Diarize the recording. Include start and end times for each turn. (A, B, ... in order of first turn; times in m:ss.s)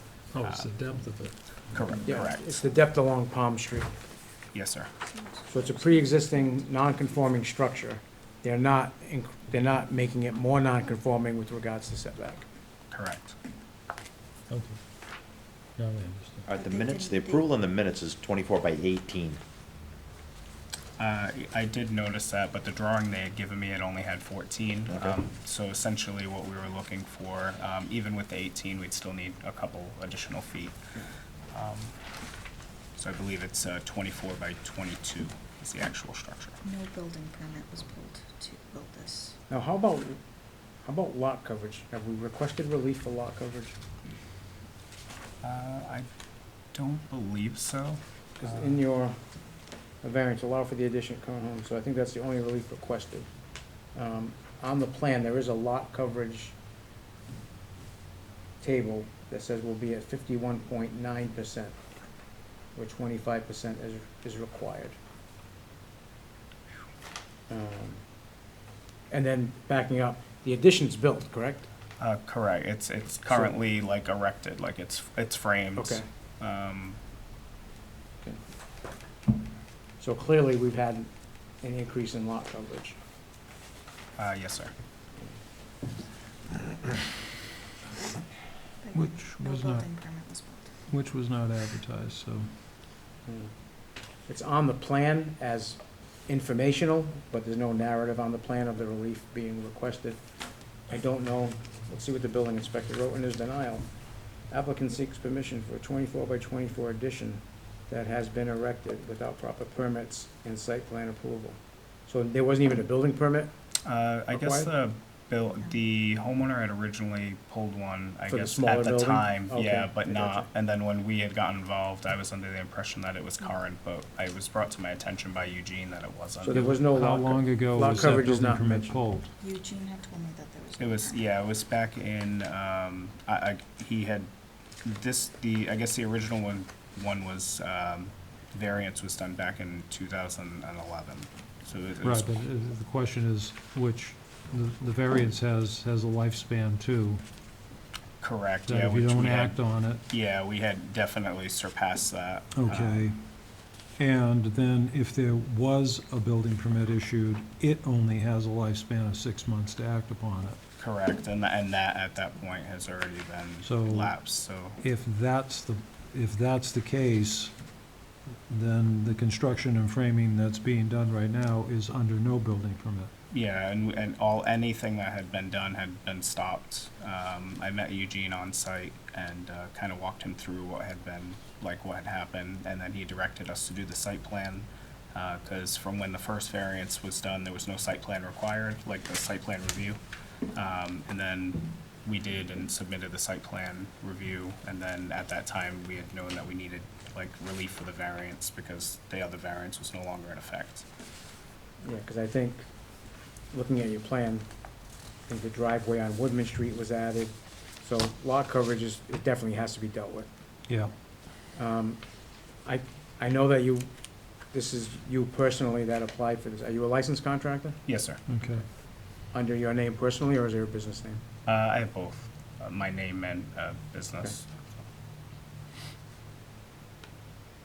0:00.3-0:01.4 A
0:00.4-0:00.7 B
0:01.7-0:02.6 B
0:02.0-0:03.9 C
0:04.5-0:04.9 B
0:05.0-0:06.9 D
0:05.5-0:12.4 C
0:12.9-0:13.3 B
0:14.5-0:14.8 A
0:15.8-0:16.4 A
0:16.4-0:19.4 E
0:16.5-0:17.5 D
0:21.0-0:30.8 B
0:24.9-0:25.2 E
0:31.5-0:31.9 B
0:33.0-0:36.6 B
0:36.6-0:39.4 D
0:39.5-0:40.2 C
0:40.8-0:43.8 C
0:45.4-0:46.1 B
0:46.7-0:48.7 B
0:48.4-0:49.2 C
0:50.0-0:53.3 C
0:53.9-0:56.6 C
0:58.6-1:01.8 C
1:02.7-1:05.0 C
1:07.5-1:08.0 C
1:09.1-1:11.7 C
1:12.0-1:17.0 B
1:15.8-1:16.0 C
1:20.0-1:21.1 C
1:21.6-1:23.0 C
1:24.2-1:24.7 B
1:28.8-1:30.7 D
1:28.9-1:30.0 A
1:30.9-1:32.5 A
1:33.2-1:33.5 C
1:34.2-1:40.2 C
1:40.8-1:43.9 C
1:44.5-1:53.5 C
1:53.8-2:06.7 B
1:54.3-1:54.7 C
1:58.3-2:00.5 C
2:06.4-2:08.9 C
2:06.5-2:09.3 A
2:09.4-2:11.2 D
2:10.8-2:14.3 B
2:14.8-2:22.4 B
2:22.0-2:27.2 A
2:28.2-2:33.1 B
2:28.7-2:30.0 A
2:32.5-2:33.2 A
2:34.0-2:40.6 A
2:40.8-2:44.8 B
2:43.6-2:44.2 A
2:44.8-2:47.5 A
2:48.5-2:53.1 A
2:53.3-3:10.0 B
3:10.5-3:20.8 B
3:21.8-3:22.7 C
3:23.5-3:24.5 C
3:25.3-3:30.3 C
3:31.5-3:32.0 C
3:32.6-3:33.9 C
3:34.5-3:37.8 C
3:37.8-3:38.2 B
3:38.2-3:38.6 A
3:39.3-3:41.2 C
3:41.4-3:44.5 B